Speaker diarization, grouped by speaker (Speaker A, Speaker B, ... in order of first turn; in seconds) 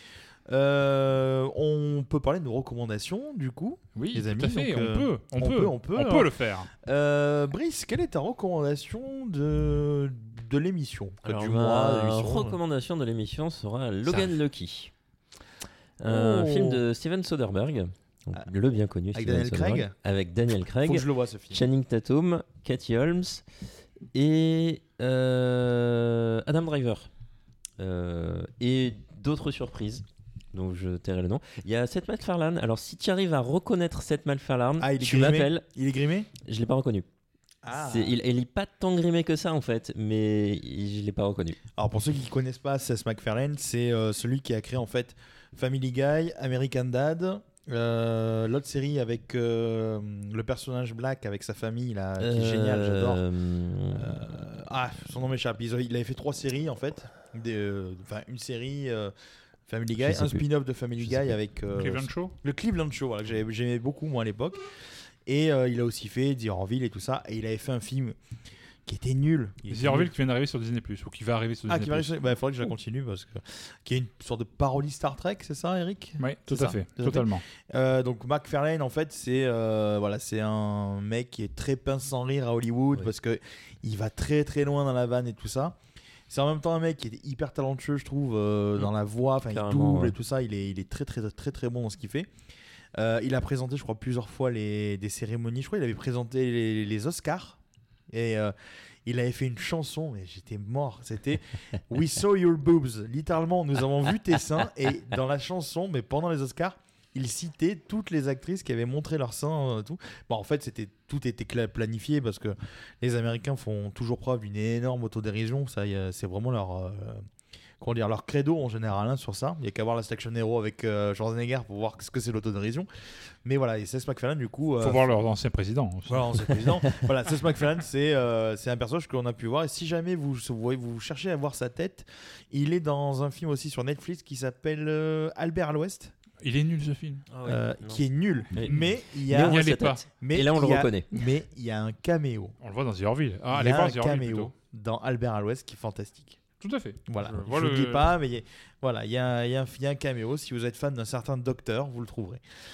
Speaker A: 0.5-12.6, 16.1-16.8, 19.1-19.9, 20.8-21.6, 34.8-36.3, 37.6-38.2, 41.8-53.2, 53.9-59.1, 59.7-64.6, 65.2-68.2, 68.8-70.1, 71.7-85.8, 86.3-92.3, 93.0-97.6, 98.1-98.5, 99.0-117.2, 117.8-122.9, 123.4-125.0, 126.1-136.1, 137.4-139.6, 140.2-142.5, 143.5-146.4, 147.1-152.4
Speaker B: 3.9-6.7, 61.7-62.3, 69.7-72.1, 76.2-77.4, 124.8-126.7, 136.4-137.2, 139.3-140.0, 142.6-144.5, 146.6-148.1
Speaker C: 11.2-14.9, 16.0-23.4, 24.1-27.1, 27.8-35.6, 36.4-37.1, 37.7-41.6, 52.2-54.2, 60.0-60.4, 89.5-90.2, 137.3-141.2